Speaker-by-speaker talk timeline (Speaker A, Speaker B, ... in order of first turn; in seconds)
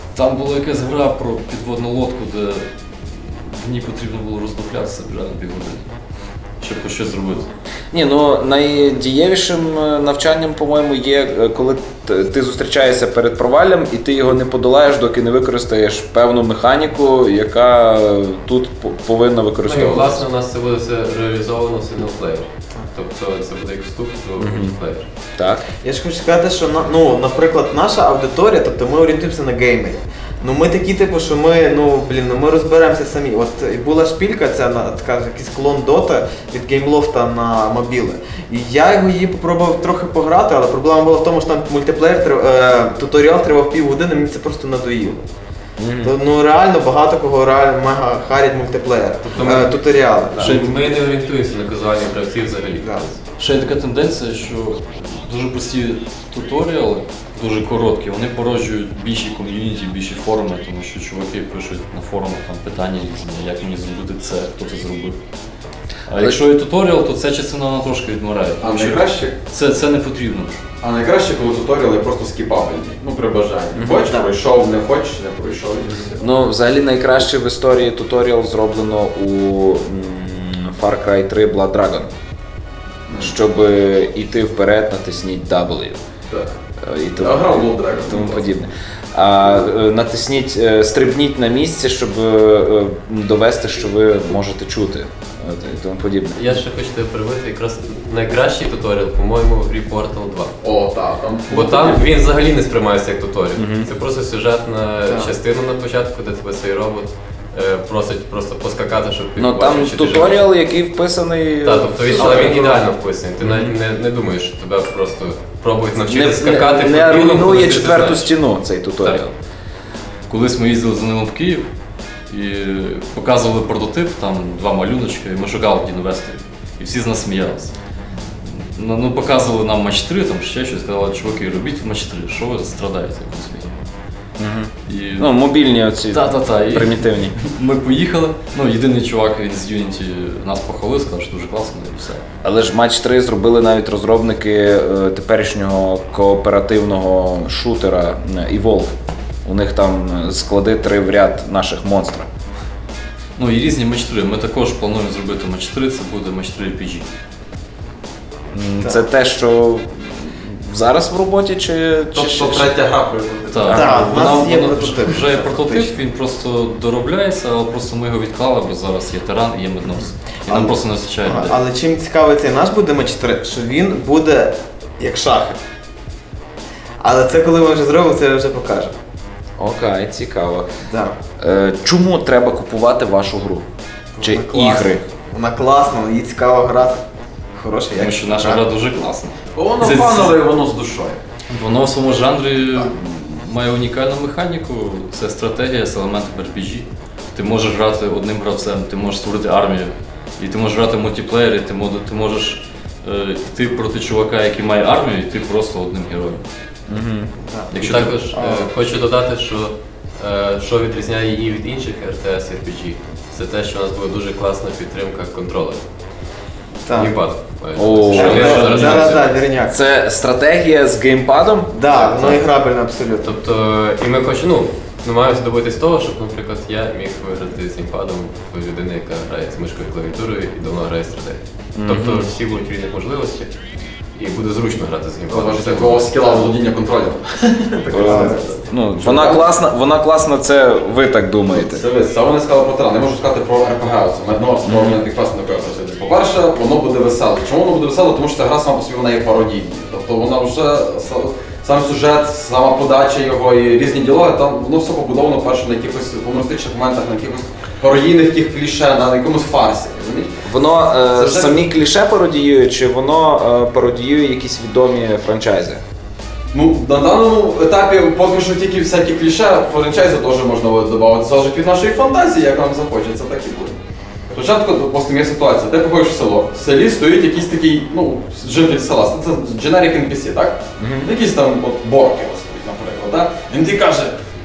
Speaker A: 0.1-5.9, 6.6-7.5, 53.4-65.2, 66.1-70.6, 120.3-121.7, 122.3-127.7, 128.5-133.7, 134.9-135.3, 136.1-142.2, 153.4-157.1, 163.5-171.6, 187.9-190.4, 191.5-206.4, 207.7-208.3, 218.2-218.9
Speaker B: 7.9-20.2, 24.4-24.7, 25.4-25.6, 45.8-46.1, 76.2-82.1, 83.1-86.0, 86.8-96.4, 103.6-103.9, 109.4-112.8, 113.4-113.7, 116.0-119.3, 134.4-137.3, 142.4-148.9, 149.4-152.3, 158.5-162.7, 179.6-180.7, 181.4-183.7, 184.2-185.0, 206.9-207.3, 217.8-219.1, 219.7-222.4, 231.8-232.3, 237.9-241.8, 244.7-245.0, 260.4-265.8, 280.8-281.1
Speaker C: 19.6-25.1, 49.3-53.2, 96.3-100.5, 101.5-110.4, 111.6-118.3, 207.7-215.8, 216.9-219.4, 221.9-222.4, 223.2-233.5, 234.1-236.5, 238.1-238.5
Speaker D: 25.8-45.2, 46.0-50.9, 74.0-74.3, 105.1-105.3, 112.2-112.7, 163.7-165.9, 170.5-175.6, 177.0-178.9, 180.9-181.2, 184.1-187.0, 187.6-188.6, 207.5-207.7, 208.3-208.7, 216.8-217.2, 218.1-219.8, 221.7-223.3, 238.1-238.4
Speaker E: 49.3-49.6, 68.6-69.3, 70.8-76.2, 83.1-83.3, 86.3-86.5, 87.2-88.5, 100.6-102.0, 162.1-164.2, 189.5-191.2, 235.3-239.4, 241.5-260.4, 261.0-261.6, 266.5-273.7, 274.3-284.1